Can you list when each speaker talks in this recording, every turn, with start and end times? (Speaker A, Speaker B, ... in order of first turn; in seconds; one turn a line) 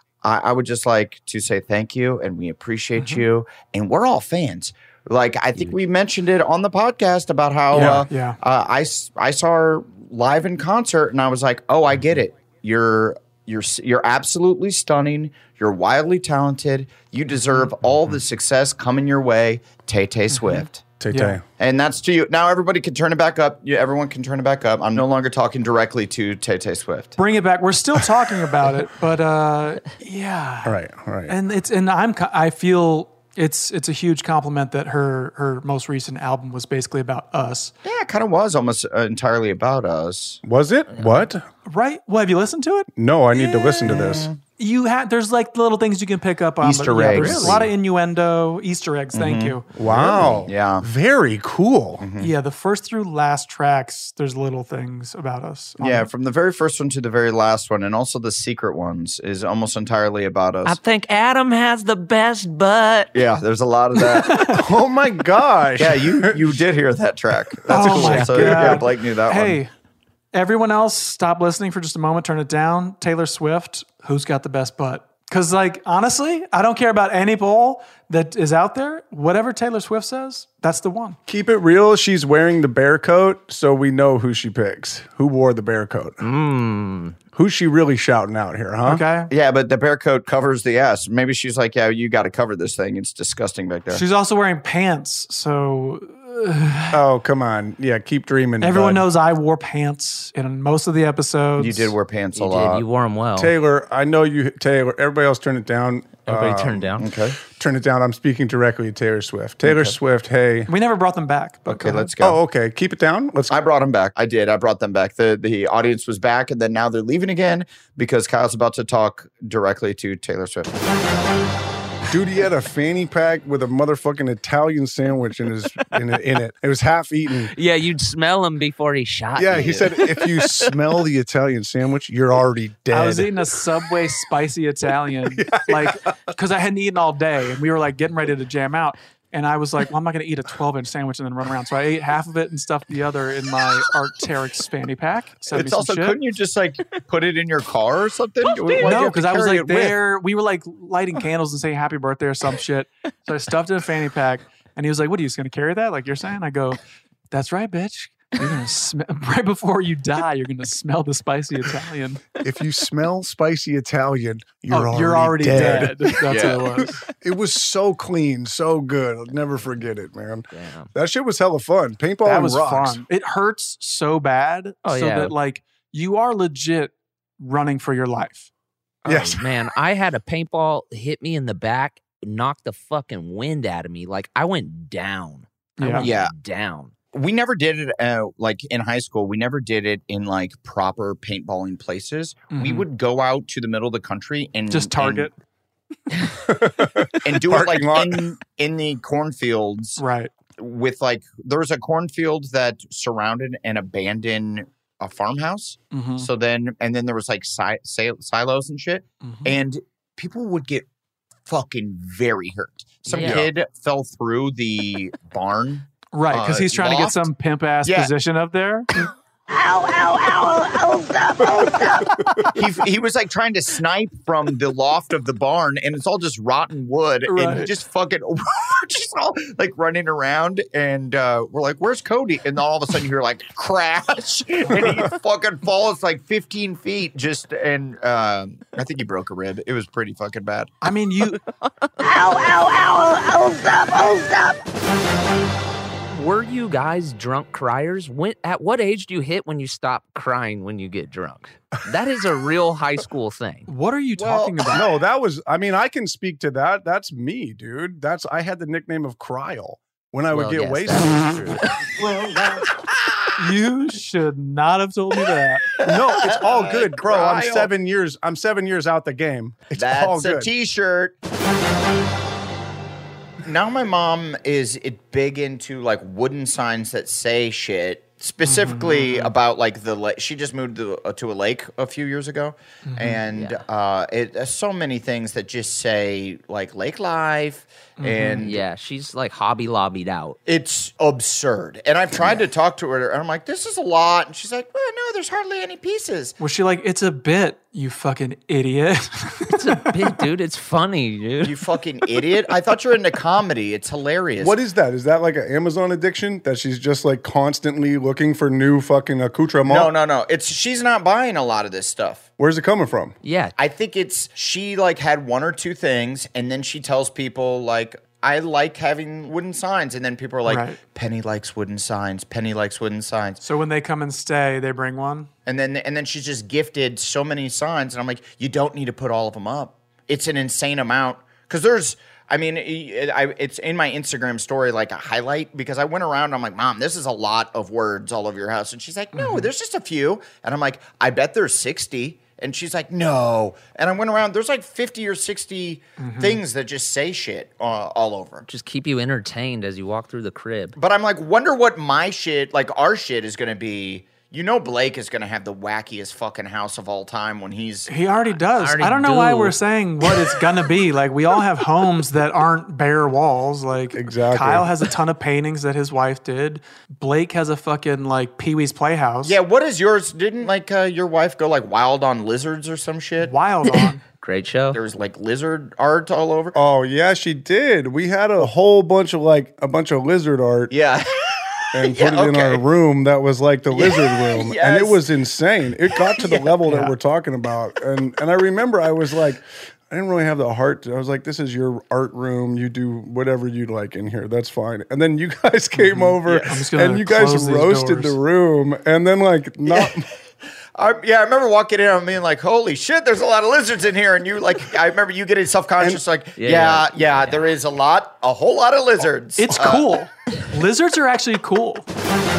Speaker A: 0.2-20.9
Speaker B: 3.0-3.2
Speaker B: 7.7-8.4
Speaker B: 20.3-21.4
Speaker C: 21.0-21.4
Speaker A: 21.6-27.1
Speaker B: 27.2-30.8
Speaker C: 30.6-31.3
Speaker B: 31.3-37.7
Speaker A: 37.8-40.4
Speaker C: 40.4-41.4
Speaker D: 40.9-41.3
Speaker B: 41.6-49.7
Speaker C: 43.0-44.3
Speaker A: 43.9-44.4
Speaker A: 46.6-47.7
Speaker C: 47.2-47.5
Speaker A: 49.1-50.9
Speaker C: 49.7-52.0
Speaker A: 52.0-52.3
Speaker B: 52.2-56.1
Speaker A: 55.8-60.8
Speaker D: 60.6-63.1
Speaker A: 63.1-64.5
Speaker B: 64.1-64.6
Speaker C: 64.5-66.6
Speaker A: 65.8-69.6
Speaker C: 67.7-68.8
Speaker B: 67.7-69.7
Speaker B: 70.3-81.2
Speaker C: 81.3-86.2
Speaker D: 86.2-87.2
Speaker C: 87.3-89.0
Speaker B: 88.8-89.3
Speaker A: 89.3-94.0
Speaker B: 93.9-97.0
Speaker C: 96.9-99.1
Speaker B: 98.6-101.9
Speaker A: 101.6-102.8
Speaker D: 102.3-103.5
Speaker C: 103.3-107.0
Speaker D: 106.2-107.1
Speaker A: 107.0-107.4
Speaker C: 107.5-110.7
Speaker A: 109.6-110.0
Speaker B: 110.7-112.1
Speaker A: 111.7-112.4
Speaker C: 112.2-113.6
Speaker A: 113.5-120.7
Speaker C: 122.1-127.5
Speaker D: 127.5-130.7
Speaker C: 129.3-133.4
Speaker B: 132.9-146.2
Speaker C: 135.3-136.1
Speaker A: 145.5-150.0
Speaker B: 148.7-156.8
Speaker B: 157.3-162.2
Speaker C: 162.4-166.6
Speaker B: 164.7-167.0
Speaker A: 165.6-166.6
Speaker C: 167.1-173.0
Speaker D: 170.5-170.9
Speaker B: 172.2-178.5
Speaker D: 174.8-175.3
Speaker D: 179.0-186.9
Speaker C: 179.1-179.5
Speaker B: 185.8-186.1
Speaker A: 186.0-186.3
Speaker A: 187.1-195.3
Speaker B: 192.5-192.9
Speaker B: 194.7-195.3
Speaker C: 196.5-198.3
Speaker A: 197.2-200.0
Speaker B: 200.0-200.3
Speaker A: 200.6-210.8
Speaker B: 205.9-206.3
Speaker B: 209.2-209.6
Speaker A: 211.5-217.3
Speaker D: 213.1-213.5
Speaker B: 216.1-218.9
Speaker A: 217.8-218.1
Speaker C: 221.5-222.4
Speaker A: 222.5-240.7
Speaker B: 227.2-227.7
Speaker B: 240.8-241.4
Speaker D: 242.0-242.6
Speaker D: 246.1-253.7
Speaker B: 253.7-254.9
Speaker A: 254.2-254.7
Speaker C: 254.7-261.6
Speaker D: 260.3-261.7
Speaker A: 262.1-263.2
Speaker B: 263.4-265.6
Speaker A: 265.8-267.7
Speaker C: 265.8-270.5
Speaker A: 269.8-271.1
Speaker A: 273.4-288.6
Speaker B: 278.4-279.3
Speaker B: 282.8-283.2
Speaker D: 283.3-283.6
Speaker B: 288.0-288.4
Speaker D: 288.4-290.4
Speaker A: 290.4-296.4
Speaker B: 296.4-300.2
Speaker D: 299.5-301.6
Speaker A: 301.4-304.6
Speaker C: 304.4-309.9
Speaker A: 309.7-312.2
Speaker C: 312.4-313.1
Speaker D: 313.2-313.5
Speaker A: 313.6-323.4
Speaker B: 320.4-320.8
Speaker B: 323.4-325.3
Speaker A: 325.4-348.4
Speaker B: 339.1-339.5
Speaker B: 346.0-346.4
Speaker D: 348.5-350.8
Speaker A: 350.8-357.9
Speaker B: 357.9-369.4
Speaker D: 358.5-359.6
Speaker C: 363.9-364.7
Speaker A: 369.2-373.9
Speaker B: 373.2-374.0
Speaker D: 374.2-374.8
Speaker A: 374.7-376.6
Speaker C: 376.5-380.7
Speaker A: 380.7-382.6
Speaker C: 381.7-400.1
Speaker A: 383.7-385.0
Speaker A: 386.1-386.5
Speaker B: 386.6-386.9
Speaker B: 395.8-398.2
Speaker A: 396.2-396.6
Speaker A: 399.7-400.0
Speaker A: 400.8-409.9
Speaker D: 406.4-407.5
Speaker B: 409.4-411.8